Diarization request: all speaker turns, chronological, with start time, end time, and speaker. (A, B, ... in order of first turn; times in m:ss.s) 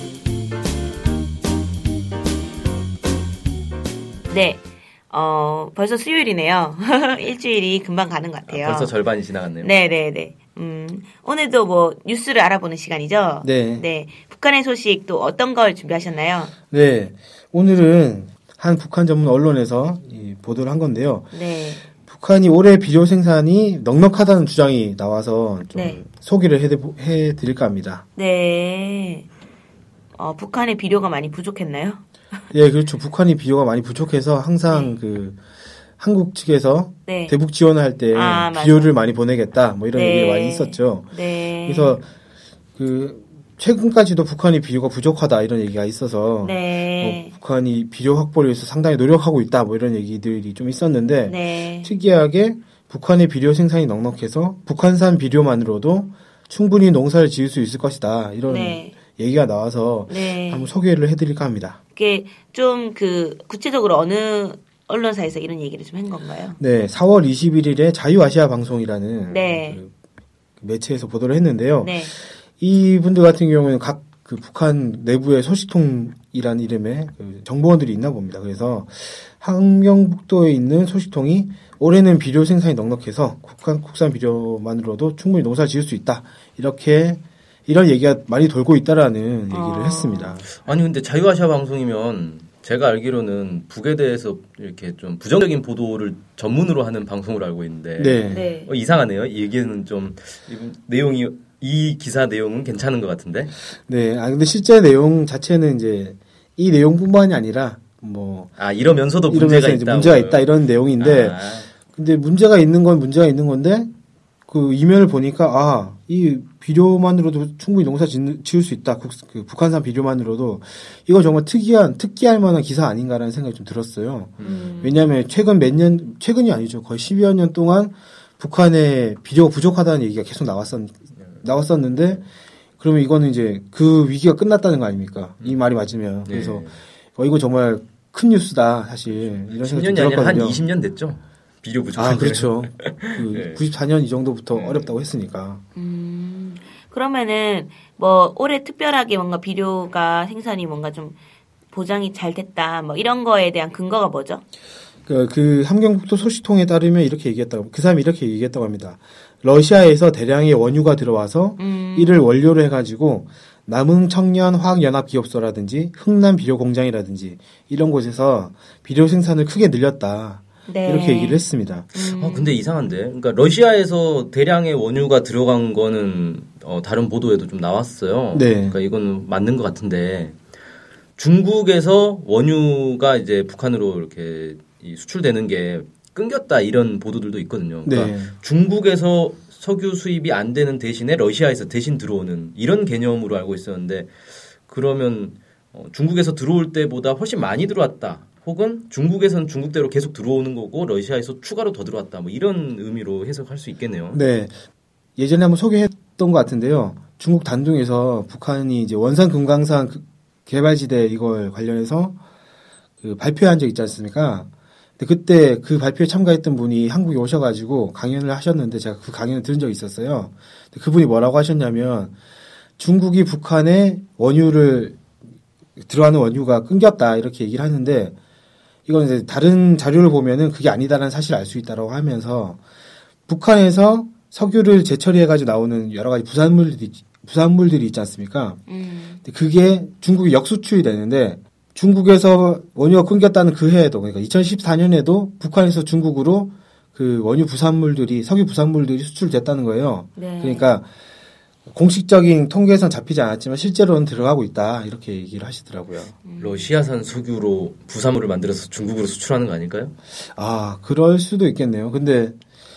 0:04.3-0:09.0 A
0:08.5-0:09.8 B
0:09.6-0:16.5 A
0:13.4-0:13.8 C
0:16.7-0:21.3 C
0:21.3-0:21.8 A
0:22.0-0:28.0 C
0:25.7-0:26.0 A
0:28.2-0:29.3 A
0:30.2-0:32.0 A
0:32.5-0:35.4 C
0:36.0-0:41.1 C
0:37.1-0:37.4 A
0:38.1-0:39.0 A
0:39.9-0:42.0 A
0:41.7-0:42.1 C
0:42.8-1:01.8 C
0:46.4-0:47.3 A
0:51.3-0:51.9 A
0:58.5-0:59.0 A
1:00.1-1:00.7 A
1:02.0-1:06.6 A
1:06.6-1:09.9 C
1:09.3-1:09.8 A
1:10.6-1:30.5 C
1:11.8-1:12.2 A
1:29.5-1:30.4 A
1:30.5-1:43.5 B
1:38.0-1:38.5 C
1:38.3-1:38.7 A
1:43.8-1:48.5 C
1:48.6-1:51.7 B
1:49.3-1:53.9 C
1:54.5-2:12.2 C
2:04.4-2:04.7 B
2:04.4-2:05.0 A
2:12.8-2:20.6 C
2:16.3-2:16.8 B
2:19.1-2:23.6 B
2:22.0-2:25.6 C
2:24.5-2:24.9 B
2:25.8-2:31.2 A
2:31.7-2:34.4 A
2:35.1-2:51.9 C
2:41.6-2:42.3 A
2:50.7-2:51.4 A
2:51.9-2:52.6 A
2:51.9-3:00.4 B
2:58.3-2:58.8 C
3:01.2-3:14.1 B
3:07.9-3:08.3 C
3:14.7-3:24.2 B
3:24.1-3:24.6 C
3:25.2-3:32.2 C
3:33.0-3:42.1 C
3:42.8-3:45.0 C
3:45.8-3:48.2 C
3:48.9-3:52.6 C
3:53.3-3:58.6 C
3:58.7-3:59.2 A
3:59.2-4:10.9 C
4:10.2-4:10.7 A
4:11.7-4:16.1 C
4:16.2-4:16.7 A
4:16.4-4:19.9 B
4:20.4-4:22.4 C